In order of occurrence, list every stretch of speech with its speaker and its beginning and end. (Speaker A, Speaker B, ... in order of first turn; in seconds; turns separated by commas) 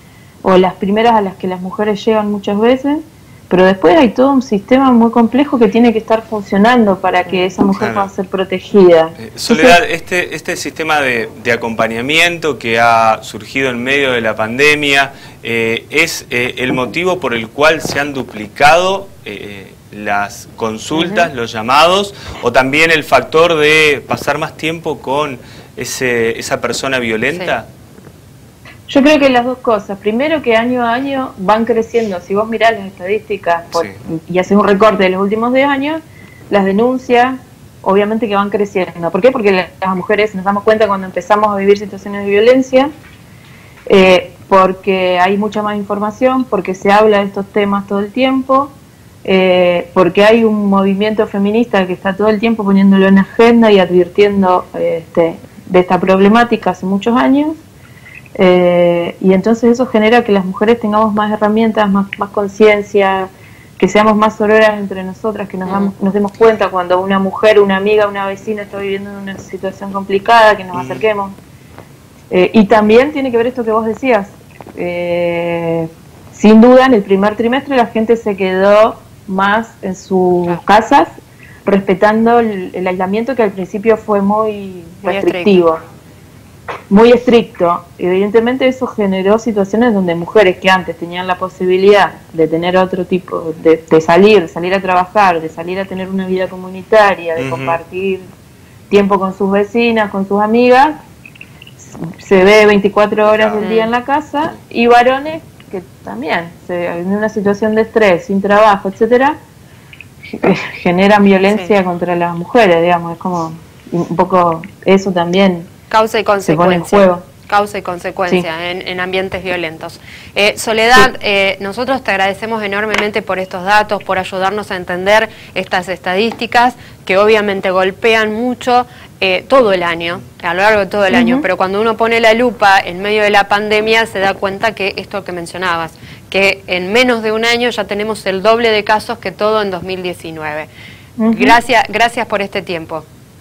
Speaker A: 0.4-9.8, Speaker B: 7.2-7.6, Speaker C: 7.7-8.1, Speaker C: 9.2-27.7, Speaker B: 20.9-21.3, Speaker B: 27.3-27.5, Speaker A: 28.9-42.9, Speaker C: 33.7-34.0, Speaker A: 43.9-48.7, Speaker A: 49.2-57.6, Speaker A: 58.4-71.3, Speaker B: 65.6-65.9, Speaker C: 70.7-71.0, Speaker A: 72.3-81.1, Speaker A: 81.7-85.8, Speaker B: 85.0-85.6, Speaker A: 86.9-98.2, Speaker C: 97.4-97.8, Speaker A: 98.9-101.0, Speaker A: 101.8-109.4, Speaker C: 103.2-103.6, Speaker B: 103.6-103.9, Speaker A: 110.3-115.7, Speaker B: 111.5-111.7, Speaker B: 115.9-140.7, Speaker A: 116.4-117.3, Speaker A: 131.1-131.4, Speaker A: 141.2-141.6, Speaker B: 141.3-143.0